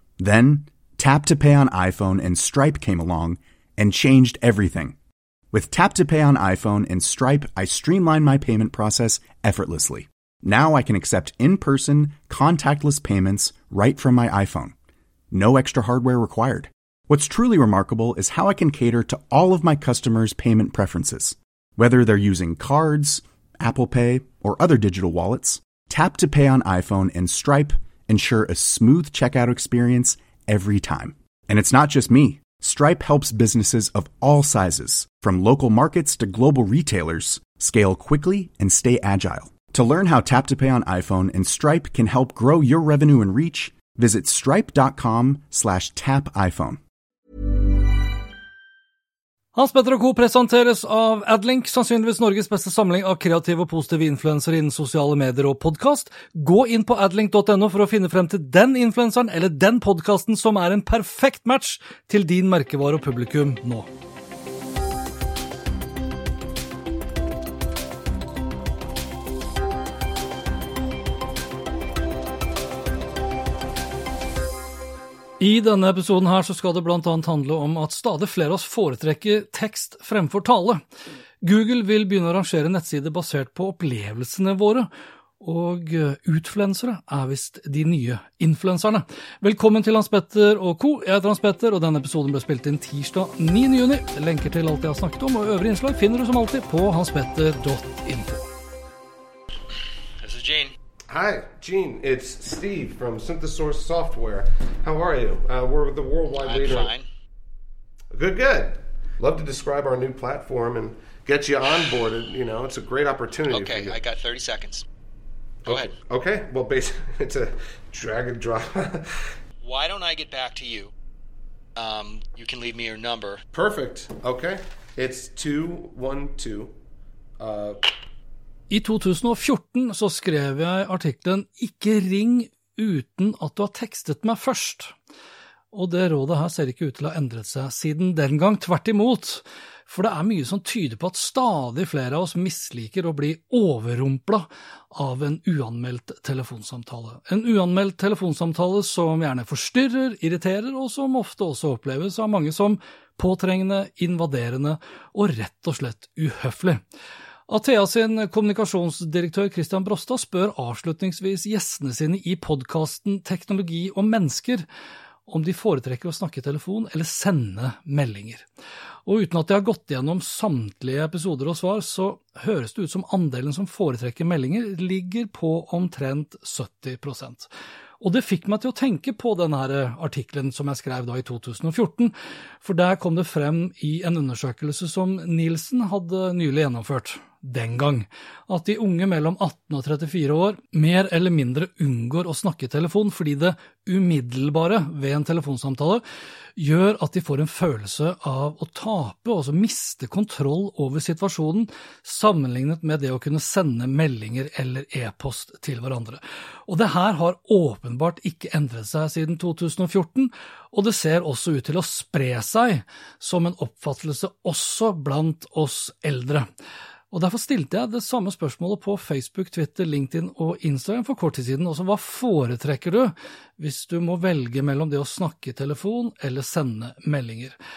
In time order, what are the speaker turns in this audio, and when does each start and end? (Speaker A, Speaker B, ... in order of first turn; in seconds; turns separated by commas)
Speaker A: 0.2-5.0, Speaker A: 5.5-14.7, Speaker A: 15.3-46.8, Speaker B: 49.5-63.9, Speaker B: 75.4-80.8, Speaker B: 81.4-84.9, Speaker B: 85.4-98.5, Speaker C: 100.2-100.7, Speaker D: 101.1-106.9, Speaker C: 106.4-107.1, Speaker D: 108.1-114.0, Speaker C: 113.5-114.8, Speaker D: 115.6-119.2, Speaker C: 115.7-115.9, Speaker C: 119.6-120.9, Speaker C: 121.8-123.4, Speaker D: 123.5-126.7, Speaker D: 127.4-127.9, Speaker B: 128.7-134.9, Speaker B: 135.7-156.8, Speaker B: 157.5-164.6, Speaker B: 165.3-168.4, Speaker B: 169.1-177.5, Speaker B: 178.0-196.0, Speaker B: 196.6-216.5, Speaker B: 217.1-227.6